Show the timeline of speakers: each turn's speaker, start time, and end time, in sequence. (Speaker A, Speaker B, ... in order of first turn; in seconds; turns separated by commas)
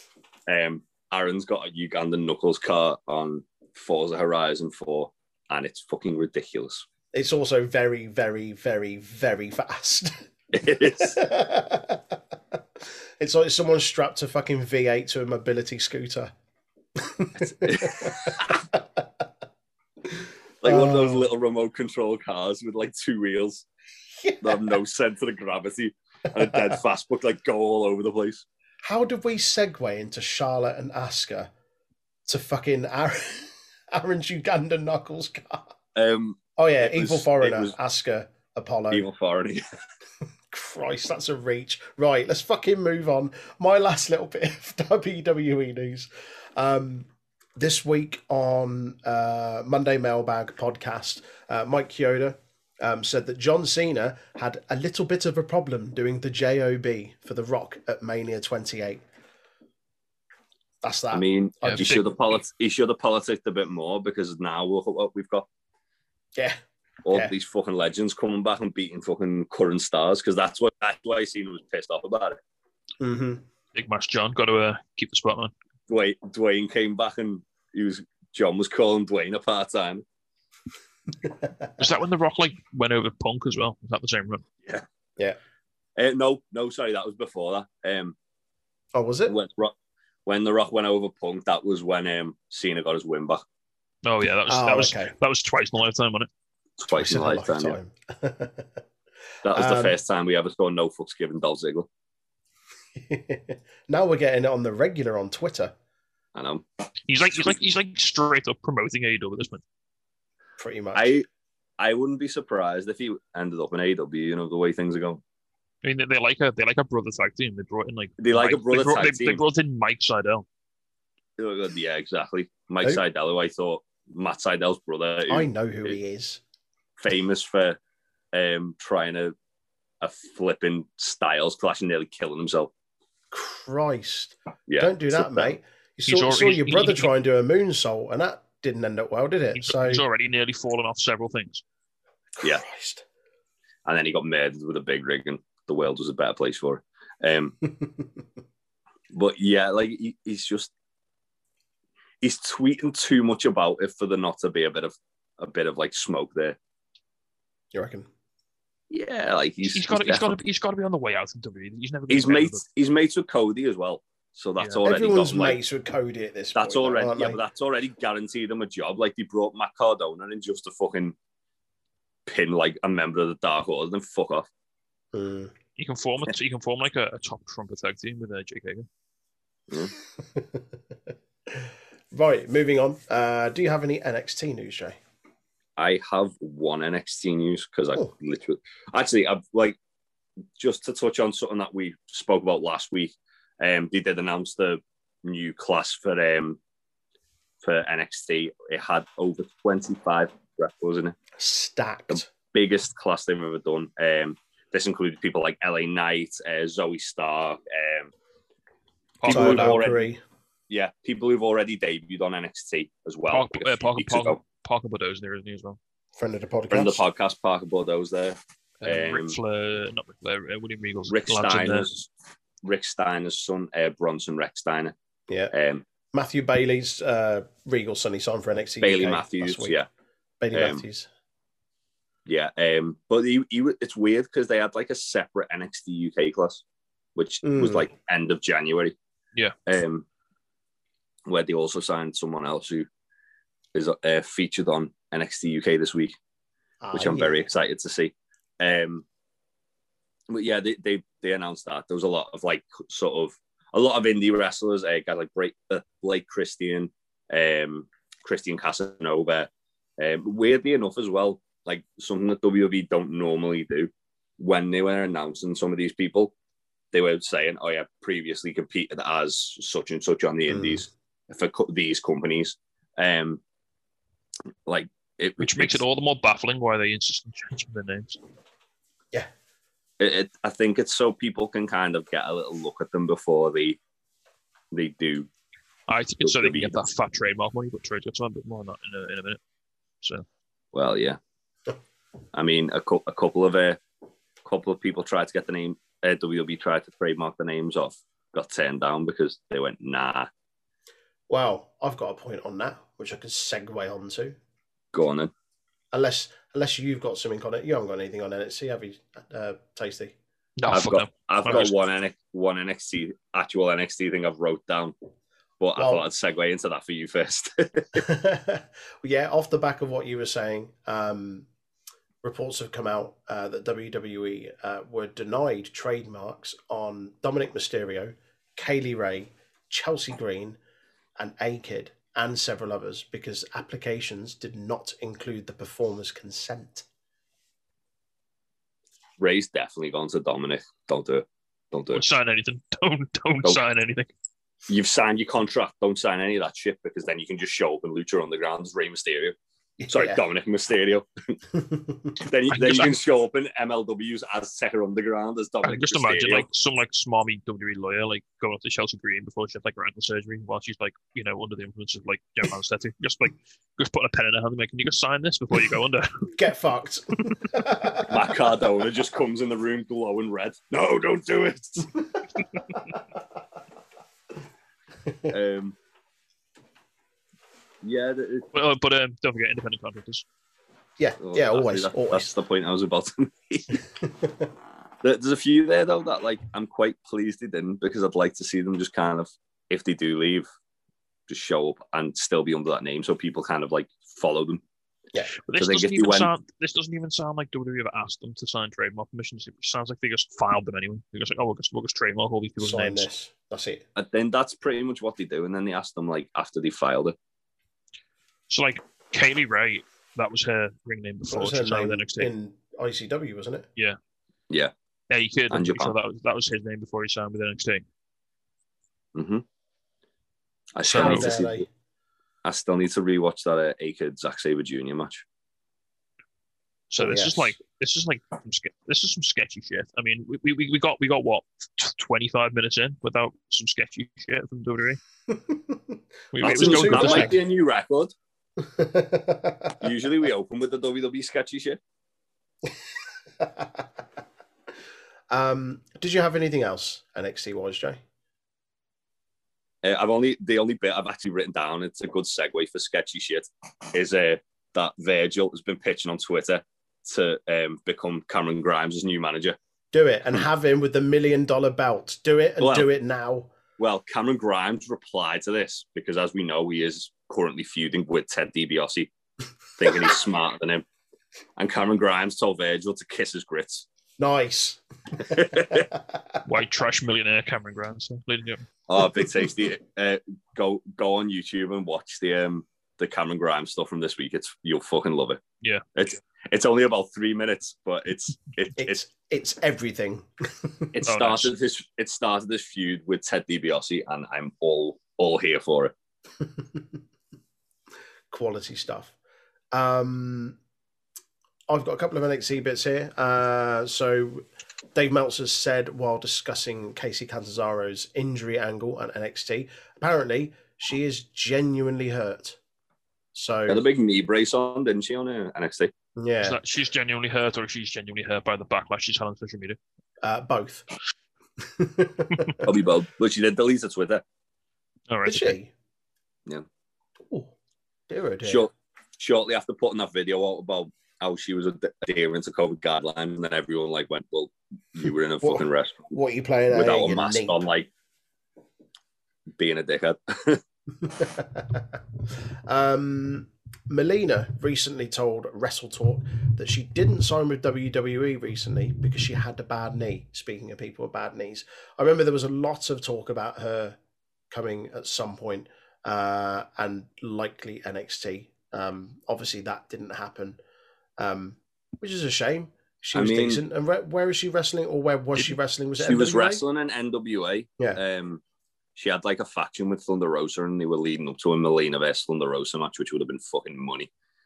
Speaker A: 0.5-6.9, Speaker B: 7.1-12.2, Speaker A: 10.5-11.2, Speaker B: 13.2-16.3, Speaker B: 17.0-19.1, Speaker A: 17.4-18.6, Speaker A: 20.6-23.7, Speaker B: 20.6-21.3, Speaker B: 24.2-24.7, Speaker A: 24.4-28.4, Speaker B: 26.4-26.8, Speaker B: 28.8-31.5, Speaker B: 32.3-35.7, Speaker A: 36.0-37.8, Speaker B: 36.6-39.1, Speaker A: 38.9-39.6, Speaker B: 40.5-59.0, Speaker B: 60.8-62.0, Speaker A: 61.1-65.5, Speaker C: 61.6-62.0, Speaker A: 67.0-72.4, Speaker B: 73.0-73.4, Speaker C: 73.8-75.5, Speaker A: 75.9-80.0, Speaker C: 81.8-84.4, Speaker A: 86.0-88.2, Speaker B: 88.9-89.3, Speaker A: 89.3-89.7, Speaker A: 90.3-93.4, Speaker C: 94.0-96.3, Speaker B: 94.5-95.1, Speaker A: 96.8-97.8, Speaker B: 97.0-98.8, Speaker A: 99.4-101.9, Speaker B: 99.5-100.0, Speaker B: 103.0-105.7, Speaker A: 106.3-106.7, Speaker C: 107.1-109.6, Speaker B: 110.6-111.1, Speaker A: 111.0-111.2, Speaker A: 111.8-115.2, Speaker C: 115.8-120.5, Speaker A: 118.2-119.4, Speaker A: 121.4-126.0, Speaker B: 125.3-126.4, Speaker A: 127.0-127.8, Speaker A: 128.3-129.3, Speaker A: 130.0-132.7, Speaker B: 133.3-140.0, Speaker A: 134.7-135.5, Speaker C: 136.1-137.1, Speaker C: 139.6-141.6, Speaker B: 142.4-143.0, Speaker A: 143.9-147.6, Speaker B: 147.8-148.0, Speaker A: 149.1-150.7, Speaker A: 152.2-156.6, Speaker B: 157.7-158.1, Speaker A: 158.9-160.4, Speaker C: 159.7-162.6, Speaker A: 162.1-165.6, Speaker B: 164.8-167.4, Speaker A: 166.6-171.2, Speaker A: 172.3-174.5, Speaker B: 175.1-175.5, Speaker C: 175.8-178.9, Speaker B: 180.2-180.7, Speaker B: 181.5-185.0, Speaker A: 185.8-189.8, Speaker A: 190.6-196.6, Speaker A: 197.6-201.2, Speaker B: 201.4-202.2, Speaker A: 202.1-208.1, Speaker C: 209.2-209.9, Speaker A: 209.2-210.0, Speaker B: 209.3-210.2, Speaker A: 210.7-214.4, Speaker C: 213.3-215.8, Speaker B: 216.2-217.0, Speaker A: 216.7-219.4, Speaker C: 218.8-221.9, Speaker A: 221.1-222.1, Speaker A: 222.6-224.9, Speaker B: 225.3-225.5, Speaker A: 225.5-225.8, Speaker B: 226.1-229.8, Speaker A: 228.8-229.9, Speaker B: 230.4-231.1, Speaker A: 230.5-230.8, Speaker A: 232.3-236.6, Speaker A: 237.2-239.0, Speaker B: 237.4-237.9, Speaker A: 239.7-240.1, Speaker A: 241.3-242.9, Speaker A: 243.7-246.2, Speaker B: 246.8-247.4, Speaker A: 246.9-249.1, Speaker A: 250.3-266.3, Speaker A: 266.9-273.4, Speaker B: 270.5-270.9, Speaker A: 274.7-275.8, Speaker C: 275.4-278.2, Speaker A: 280.0-283.8, Speaker A: 284.7-285.3, Speaker C: 285.9-289.4, Speaker A: 286.2-286.8, Speaker A: 290.7-291.2, Speaker A: 292.3-293.8, Speaker A: 294.4-300.3, Speaker B: 301.3-304.4, Speaker A: 304.9-305.3, Speaker B: 305.9-310.1, Speaker C: 310.6-311.8, Speaker A: 310.7-314.9, Speaker A: 315.6-318.0, Speaker B: 315.8-316.1, Speaker B: 317.9-321.5, Speaker B: 322.2-330.6, Speaker B: 331.2-336.9, Speaker A: 339.2-342.1, Speaker C: 341.9-344.1, Speaker A: 344.7-349.4, Speaker B: 349.8-350.2, Speaker A: 349.9-351.4, Speaker B: 351.5-352.1, Speaker A: 352.2-356.5, Speaker C: 352.5-353.0, Speaker C: 355.6-366.3, Speaker B: 366.3-368.1, Speaker A: 368.1-372.0, Speaker A: 375.3-375.8, Speaker A: 377.8-378.5, Speaker C: 378.5-380.2, Speaker B: 381.0-382.3, Speaker A: 381.2-383.8, Speaker B: 384.0-384.4, Speaker A: 385.0-390.5, Speaker A: 391.3-394.6, Speaker C: 395.5-403.1, Speaker A: 395.5-396.3, Speaker B: 402.6-403.8, Speaker A: 404.0-407.1, Speaker C: 408.5-412.3, Speaker B: 411.3-413.7, Speaker C: 415.1-417.8, Speaker A: 415.5-415.9, Speaker A: 419.1-419.4, Speaker A: 420.8-421.6, Speaker B: 420.9-421.7, Speaker C: 420.9-421.3, Speaker A: 422.4-425.2, Speaker C: 426.9-435.0, Speaker B: 427.0-427.5, Speaker B: 435.3-437.4, Speaker C: 436.3-437.3, Speaker A: 436.4-438.1, Speaker B: 438.6-439.9, Speaker A: 439.8-441.8, Speaker B: 443.4-443.8, Speaker B: 445.3-448.0, Speaker A: 449.8-459.6, Speaker B: 459.9-463.5, Speaker A: 462.6-462.9, Speaker A: 463.8-469.1, Speaker A: 469.8-470.9, Speaker A: 471.6-473.9, Speaker B: 474.2-476.4, Speaker A: 475.2-475.9, Speaker C: 476.4-478.6, Speaker A: 478.9-485.4, Speaker A: 485.9-489.0, Speaker B: 488.8-490.9, Speaker A: 490.9-495.9, Speaker C: 491.1-491.5, Speaker B: 496.4-496.9, Speaker B: 498.3-499.1, Speaker B: 499.7-500.6, Speaker B: 501.7-512.6, Speaker B: 513.4-513.8, Speaker A: 513.7-515.9, Speaker B: 516.2-516.6, Speaker C: 516.4-519.8, Speaker B: 520.2-520.9, Speaker B: 521.6-522.7, Speaker A: 522.6-524.2, Speaker C: 525.1-525.6, Speaker B: 525.2-525.7, Speaker B: 528.1-528.7, Speaker A: 528.4-536.1, Speaker B: 535.4-537.6, Speaker A: 536.7-537.9, Speaker A: 539.6-540.6, Speaker B: 541.0-542.0, Speaker B: 542.7-554.0, Speaker B: 554.5-560.6, Speaker B: 561.2-566.6, Speaker A: 563.1-563.6, Speaker A: 566.0-568.4, Speaker A: 569.0-574.1